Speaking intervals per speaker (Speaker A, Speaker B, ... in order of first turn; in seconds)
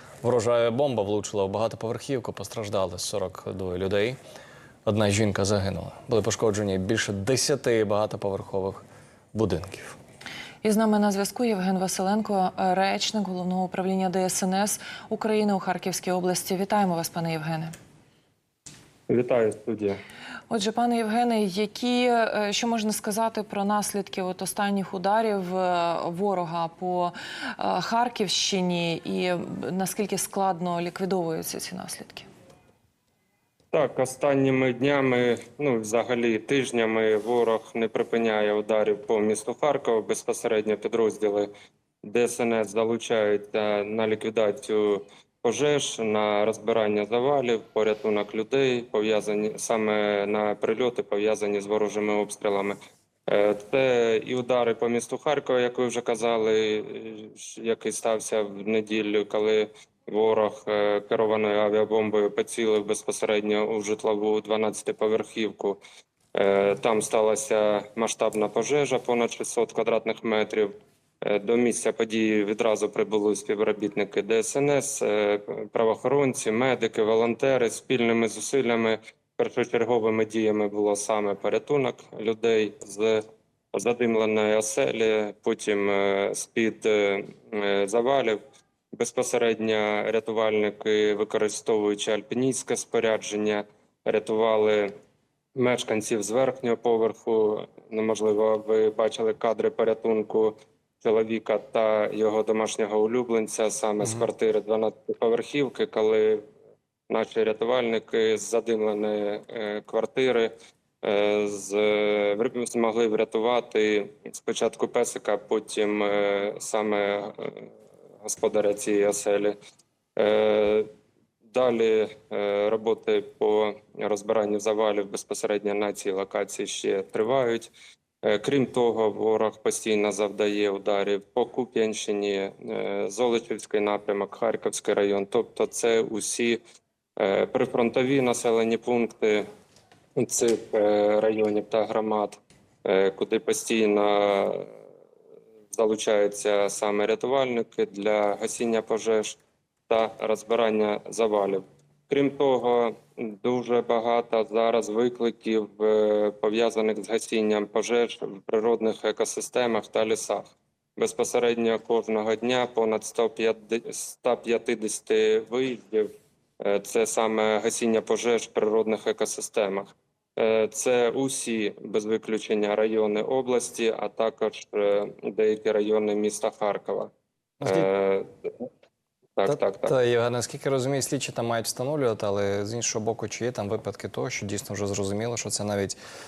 Speaker A: 0.2-4.2, 4.8-9.9, 177.6-177.9, 179.5-186.0
Speaker B: 10.6-17.7, 20.5-32.3
Speaker C: 19.1-20.0, 33.7-41.5, 42.0-52.8, 53.3-65.8, 66.3-83.2, 83.7-88.4, 88.9-94.9, 95.5-106.4, 107.1-110.5, 111.0-117.7, 118.2-119.5, 120.2-120.9, 121.5-127.7, 128.2-136.6, 137.2-139.4, 140.2-144.7, 145.7-149.4, 149.9-160.4, 161.0-166.1, 166.6-177.1, 177.6-178.5, 179.4-179.9